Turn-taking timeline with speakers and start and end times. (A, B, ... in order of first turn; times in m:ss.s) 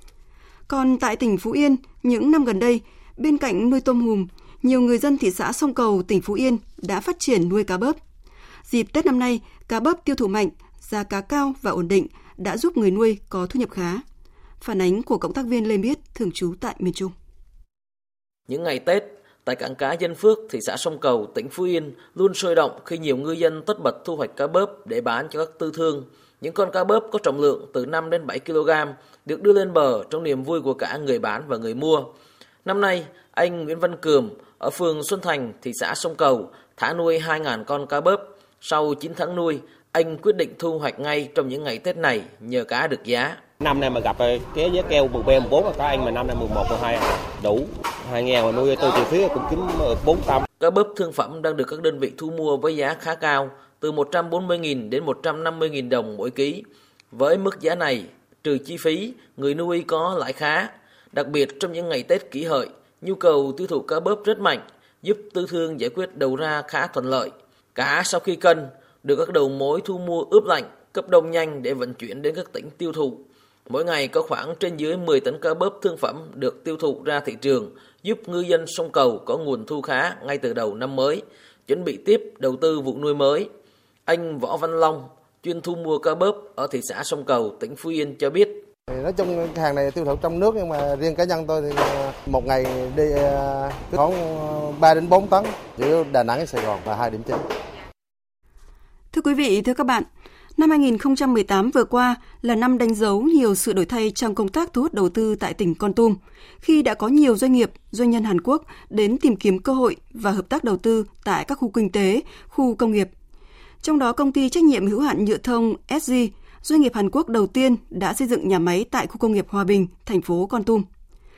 0:00.7-0:08.0 A
0:08.6-0:14.0 A
0:14.6-0:17.1 A
0:18.5-0:32.1 B
0:32.6-0:43.4 B
0:43.6-0:50.4 C
0:50.6-1:23.5 B
1:24.1-1:28.6 B
1:28.9-1:37.4 D
1:39.1-1:53.1 A
1:53.8-2:00.8 A